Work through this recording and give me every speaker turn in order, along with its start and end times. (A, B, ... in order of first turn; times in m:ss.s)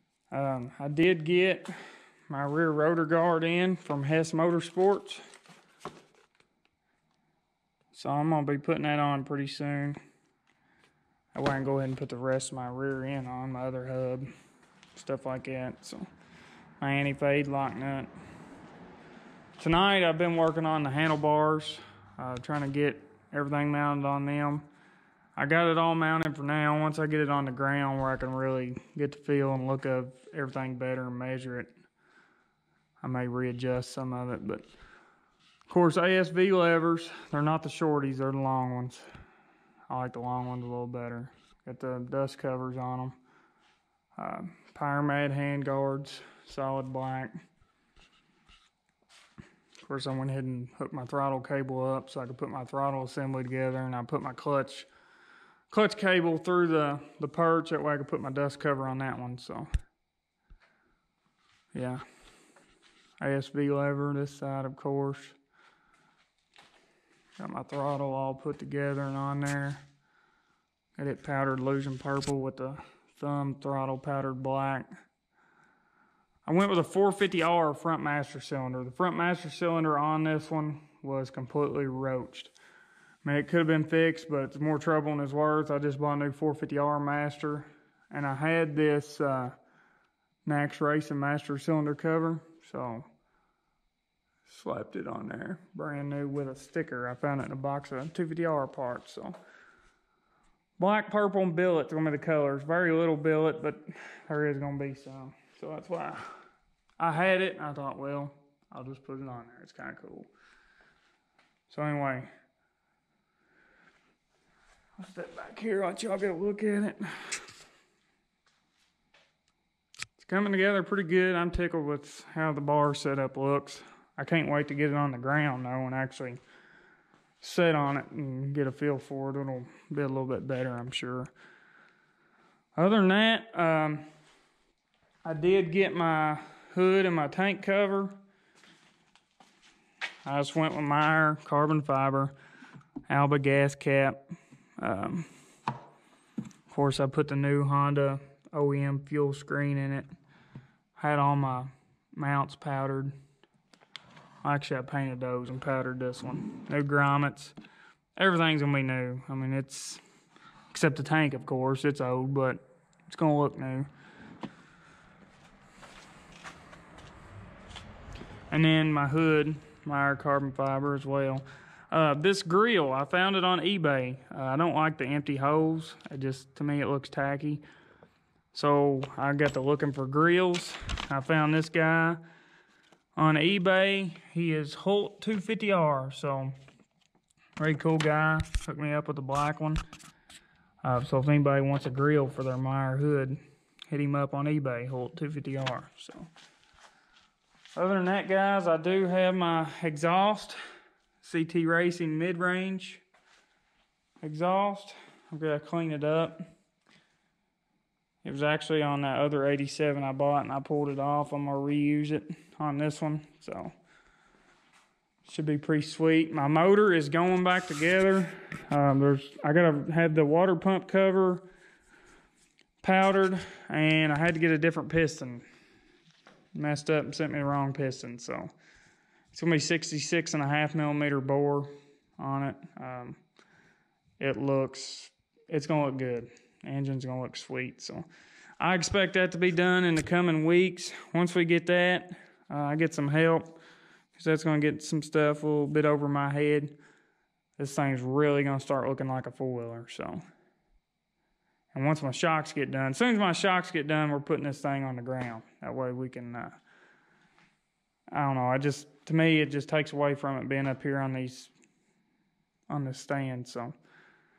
0:00.3-0:01.7 A
0:02.3-0:05.2 A
0:07.9-0:10.0 A
0:11.3-0:14.3 A
0:14.9-0:16.1 A
0:16.8-0:18.1 A
0:19.6-0:24.7 A
0:25.4-0:31.7 A
0:33.0-0:34.6 A
0:35.7-0:39.1 A
0:39.9-0:43.2 A
0:44.2-0:47.3 A
0:49.8-0:54.9 A
0:55.7-0:59.7 A
1:01.7-1:02.0 A
1:03.2-1:05.4 A
1:07.4-1:09.8 A
1:11.0-1:14.9 A
1:16.4-1:22.5 A
1:23.2-1:29.5 A
1:30.4-1:33.1 A
1:34.4-1:39.4 A
1:40.8-1:46.3 A
1:47.0-1:50.3 A
1:51.7-1:52.3 A
1:55.0-1:57.5 A
2:00.2-2:06.4 A
2:07.4-2:11.3 A
2:12.8-2:14.0 A
2:15.2-2:18.1 A
2:20.2-2:22.3 A
2:23.1-2:24.2 A
2:24.8-2:25.3 A
2:26.7-2:30.1 A
2:31.0-2:33.1 A
2:34.4-2:37.5 A
2:38.2-2:40.0 A
2:40.7-2:43.9 A
2:48.5-2:57.6 A
2:58.5-3:02.2 A
3:03.2-3:06.5 A
3:07.6-3:09.8 A
3:10.8-3:16.3 A
3:17.7-3:20.6 A
3:21.2-3:23.0 A
3:24.2-3:26.4 A
3:28.2-3:33.7 A
3:35.2-3:41.4 A
3:42.8-3:45.4 A
3:46.5-3:48.5 A
3:49.3-3:53.2 A
3:54.2-3:58.0 A
3:58.6-4:03.6 A
4:04.1-4:06.8 A
4:07.6-4:10.2 A
4:11.7-4:16.6 A
4:18.1-4:21.5 A
4:22.7-4:23.7 A